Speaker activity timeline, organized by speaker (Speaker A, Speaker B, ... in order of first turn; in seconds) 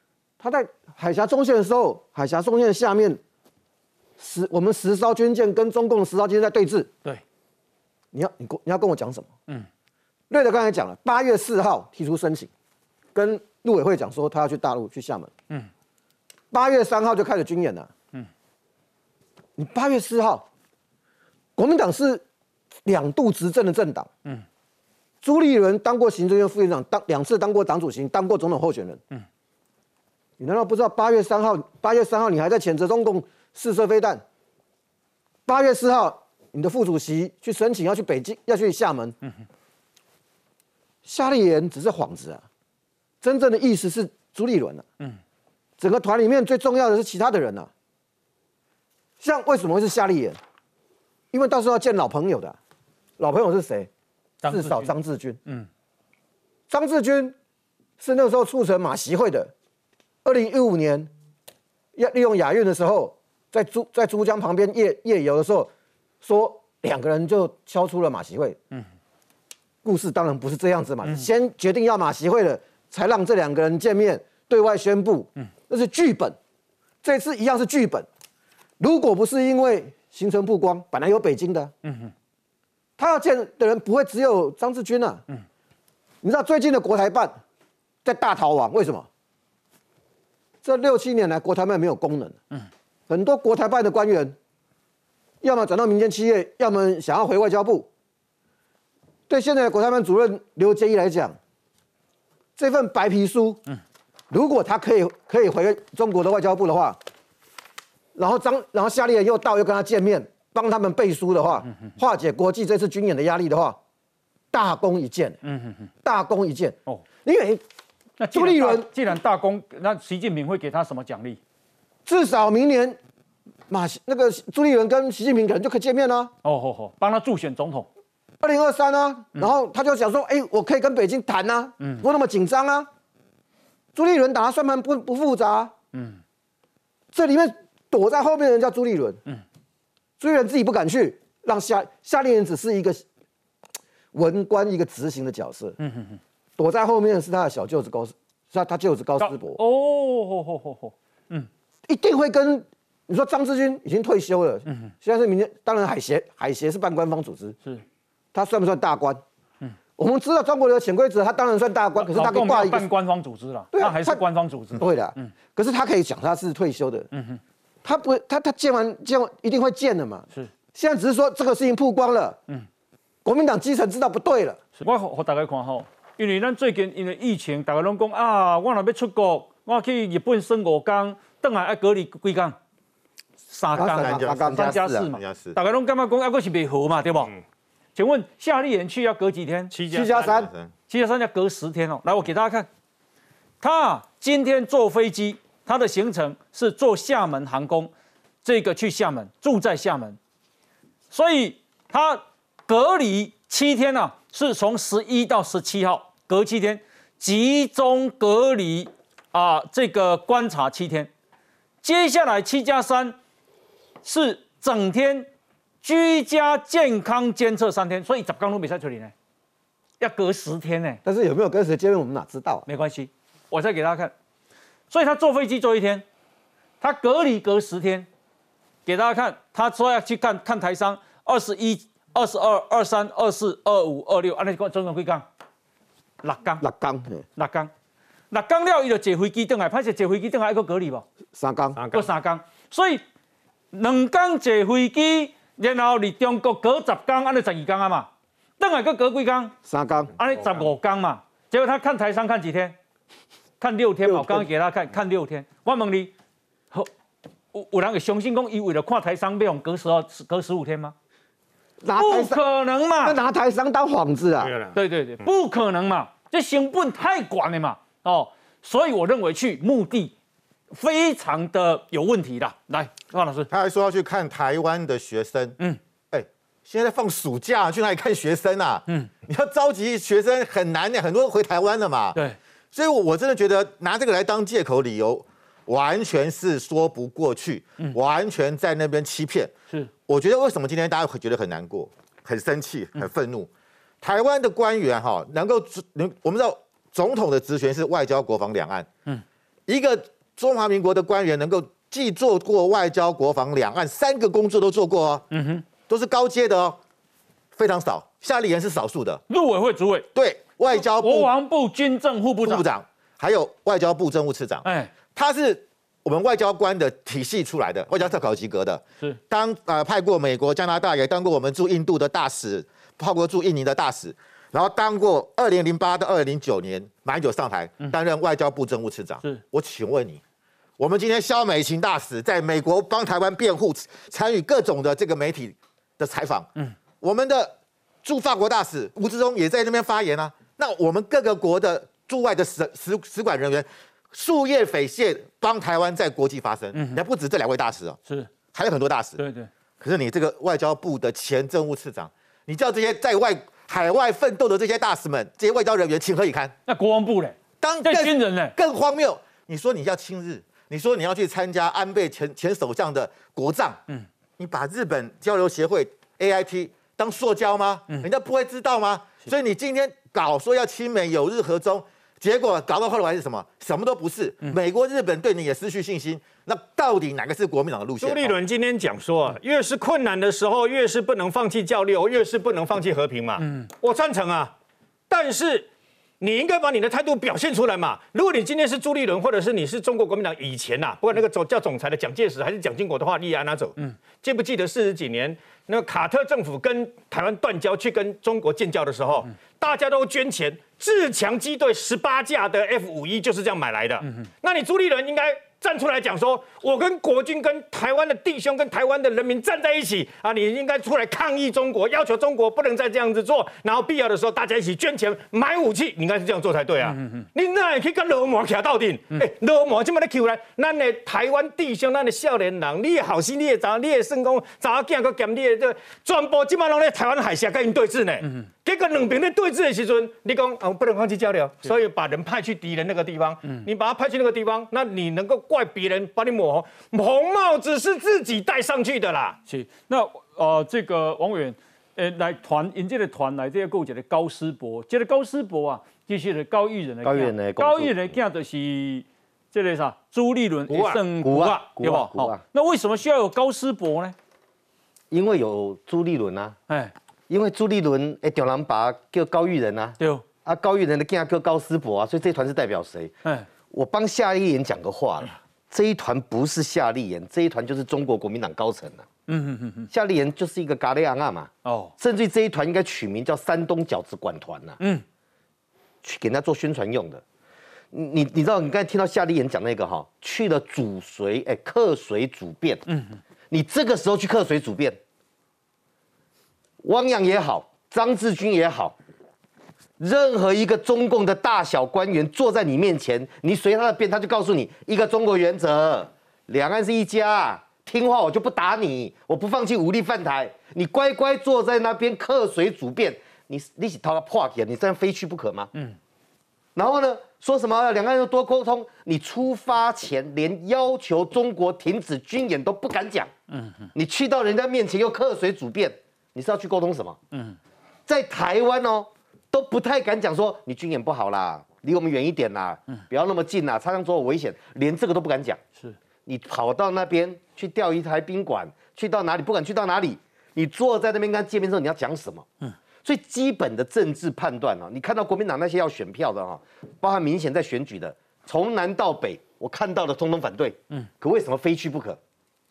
Speaker A: 0.4-3.2, 4.2-6.9, 8.1-9.3, 10.3-12.5, 13.1-15.3, 16.5-17.9, 19.6-20.5, 21.6-22.2, 22.9-24.1, 25.2-29.0, 30.4-34.2, 35.5-39.2, 41.0-42.5, 43.2-44.9, 45.8-47.7, 49.2-50.4, 51.3-52.6, 53.2-53.9, 54.5-55.4, 56.7-57.4, 58.0-59.5, 60.2-61.1, 62.0-65.7, 66.2-68.6, 69.8-76.4, 77.0-78.1, 78.8-81.7, 83.0-85.2, 86.2-87.4, 88.0-89.1, 90.6-92.4, 93.1-94.4, 95.4-97.9, 99.3-101.4, 102.6-103.6, 104.3-107.0, 108.2-113.8, 114.5-115.4, 116.0-117.6, 118.3-118.9, 122.1-123.0, 123.7-126.3, 128.4-132.9, 133.9-135.7, 137.1-139.2, 140.2-143.0, 144.1-145.8, 146.6-149.6, 151.9-157.6, 158.3-159.2, 160.0-162.9, 163.7-164.2, 164.8-167.1, 167.8-172.4, 173.2-174.6, 183.8-184.9, 189.9-190.5, 221.1-222.7, 236.6-237.3, 241.4-241.8, 249.7-250.1, 254.1-254.5, 261.8-262.4, 263.0-264.5
Speaker B: 54.4-54.9, 81.8-82.1, 115.5-115.9, 118.2-121.4, 126.4-127.9, 135.9-136.2, 145.8-146.2, 149.2-151.5, 154.7-154.9, 162.0-165.3, 167.1-167.4, 174.8-182.6, 183.5-187.3, 188.0-189.7, 190.9-192.7, 193.6-197.9, 198.4-200.2, 201.1-211.1, 211.8-213.2, 214.0-215.3, 215.8-219.1, 220.0-221.0, 222.7-224.1, 224.9-226.1, 226.8-228.1, 228.9-235.3, 236.2-236.7, 237.4-237.7, 238.3-241.1, 241.9-243.0, 243.7-249.6, 250.2-252.8, 253.6-256.1, 257.5-260.9, 262.0-263.2, 264.8-270.1, 270.7-273.5, 305.3-305.6, 309.3-310.1, 310.7-312.7, 314.6-314.9, 346.7-347.0, 349.2-349.5, 356.7-358.6, 439.5-454.1, 456.7-456.9, 460.0-460.2, 469.3-469.9, 471.6-471.9, 482.9-483.2, 513.5-513.9
Speaker C: 183.9-185.6, 190.3-190.7, 273.5-275.6, 276.1-282.2, 282.7-289.5, 290.1-293.5, 294.0-298.9, 299.7-305.2, 305.9-306.8, 307.6-309.2, 310.1-311.3, 312.4-330.2, 330.8-336.5, 337.0-348.0, 348.5-349.2, 349.8-356.5, 357.6-363.8, 364.4-378.4
Speaker D: 189.7-190.4, 241.8-242.1, 264.4-264.8, 378.0-384.5, 385.1-385.7, 386.2-439.4, 450.7-451.0
Speaker E: 447.0-448.1, 451.1-452.4, 455.1-456.6, 457.3-463.1, 463.7-469.1, 469.9-474.8, 476.0-477.2, 477.9-482.8, 483.5-485.0, 486.8-488.9, 490.0-505.7, 506.8-513.3, 514.0-517.2, 518.1-525.6, 526.3-532.5, 533.0-542.2